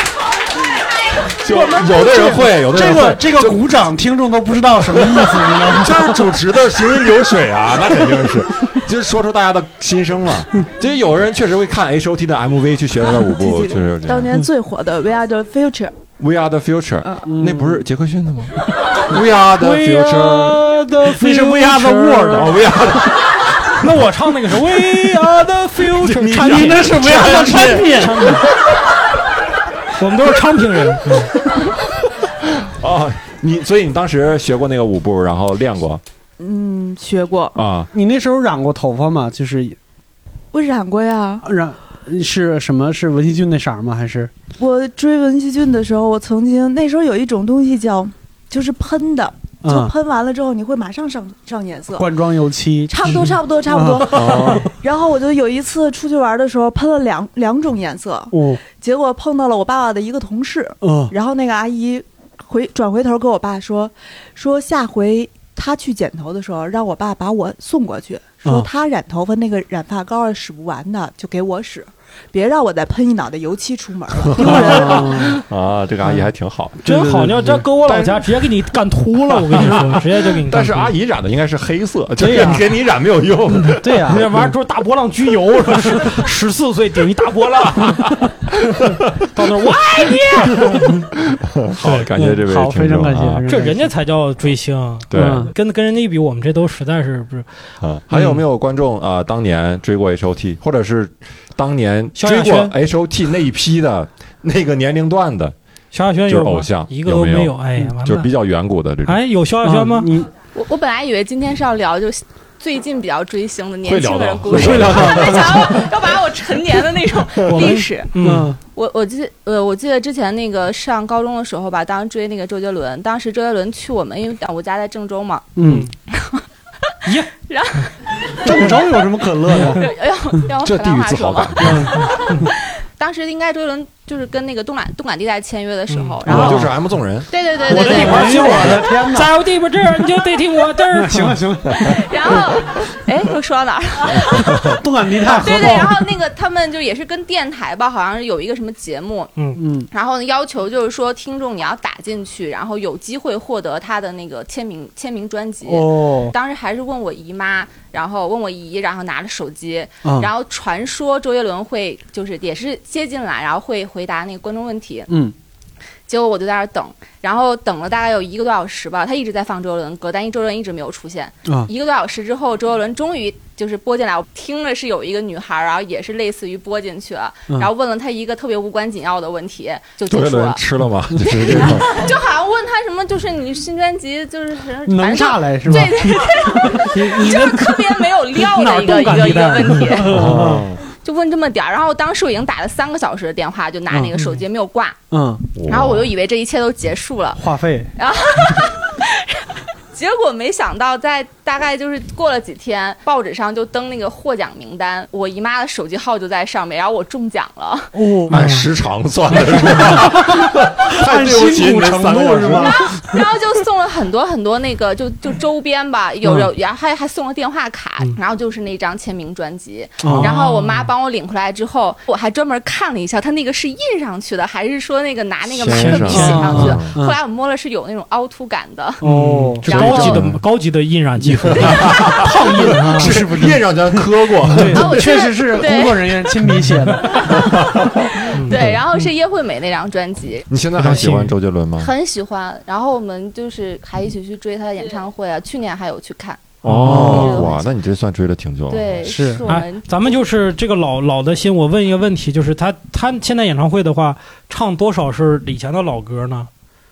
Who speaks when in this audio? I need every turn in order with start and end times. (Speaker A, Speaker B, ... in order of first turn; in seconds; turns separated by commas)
Speaker A: 1.4-3.6, Speaker B: 1.6-6.2, Speaker A: 5.7-14.3, Speaker C: 13.2-16.0, Speaker A: 16.2-20.6, Speaker B: 17.3-17.9, Speaker D: 19.6-22.5, Speaker B: 20.9-22.5, Speaker A: 22.3-23.4, Speaker D: 23.8-28.4, Speaker A: 26.0-28.3, Speaker B: 26.3-28.4, Speaker D: 30.0-31.3, Speaker A: 32.5-36.0, Speaker C: 36.4-37.5, Speaker A: 37.5-37.9, Speaker B: 37.9-39.8, Speaker C: 40.5-41.5, Speaker B: 41.4-44.3, Speaker C: 44.6-52.2, Speaker B: 49.6-49.9, Speaker B: 52.0-54.7, Speaker C: 52.9-75.3, Speaker A: 54.1-54.7, Speaker B: 58.3-58.6, Speaker B: 60.8-61.1, Speaker A: 74.3-76.8, Speaker B: 74.4-75.4, Speaker B: 76.8-77.6, Speaker D: 76.8-80.9, Speaker A: 77.8-78.4, Speaker A: 79.5-83.9, Speaker B: 82.2-82.6, Speaker B: 83.8-84.4, Speaker D: 84.0-88.3, Speaker D: 89.2-91.0, Speaker A: 91.5-93.4, Speaker D: 91.8-92.1, Speaker B: 92.2-93.9, Speaker D: 93.5-97.5, Speaker A: 95.1-95.5, Speaker B: 95.1-95.5, Speaker A: 97.8-105.5, Speaker D: 102.1-102.7, Speaker D: 105.9-108.3, Speaker A: 106.3-109.2, Speaker D: 109.0-110.1, Speaker B: 109.6-110.3, Speaker E: 110.5-118.1, Speaker A: 113.8-115.8, Speaker B: 114.5-115.8, Speaker D: 117.5-118.5, Speaker B: 118.2-118.6, Speaker E: 118.7-125.5, Speaker B: 125.5-125.9, Speaker D: 125.6-125.9, Speaker E: 126.1-126.4, Speaker D: 127.0-127.8, Speaker E: 127.5-128.8, Speaker B: 128.4-129.8, Speaker D: 129.6-129.8, Speaker E: 129.7-136.7, Speaker A: 130.6-131.8, Speaker D: 131.6-132.5, Speaker D: 135.9-136.2, Speaker B: 136.2-136.7, Speaker A: 136.2-138.8, Speaker E: 137.3-138.5, Speaker B: 137.6-139.3, Speaker D: 137.7-141.4, Speaker B: 140.9-142.6, Speaker E: 141.8-149.3, Speaker B: 144.1-146.1, Speaker B: 149.6-149.9, Speaker E: 149.9-165.1, Speaker B: 155.7-156.3, Speaker B: 165.1-165.3, Speaker E: 166.1-180.6, Speaker A: 180.1-181.9, Speaker E: 181.5-190.1, Speaker B: 181.5-181.8, Speaker B: 184.8-187.7, Speaker D: 187.3-187.6, Speaker D: 188.5-190.0, Speaker B: 188.6-190.7, Speaker A: 190.1-190.8, Speaker E: 190.9-195.0, Speaker B: 195.1-195.4, Speaker A: 195.6-196.1, Speaker E: 195.7-197.4, Speaker B: 197.3-197.9, Speaker E: 197.9-207.9, Speaker B: 207.9-208.4, Speaker A: 208.3-212.8, Speaker D: 208.3-208.6, Speaker B: 209.5-213.2, Speaker E: 212.9-229.0, Speaker B: 220.0-220.3, Speaker D: 220.1-220.8, Speaker A: 225.5-226.9, Speaker D: 225.7-226.8, Speaker B: 226.6-227.2, Speaker B: 229.0-229.9, Speaker D: 229.0-233.2, Speaker A: 229.6-230.4, Speaker E: 229.7-230.2, Speaker A: 231.4-235.1, Speaker B: 232.8-237.2, Speaker E: 234.7-236.3, Speaker A: 237.3-238.7, Speaker E: 238.3-240.5, Speaker D: 238.3-239.1, Speaker A: 240.5-241.9, Speaker D: 240.8-241.3, Speaker E: 241.8-247.6, Speaker A: 246.6-248.9, Speaker B: 246.7-247.5, Speaker D: 246.7-247.1, Speaker E: 248.7-250.2, Speaker B: 249.0-249.4, Speaker D: 249.4-256.5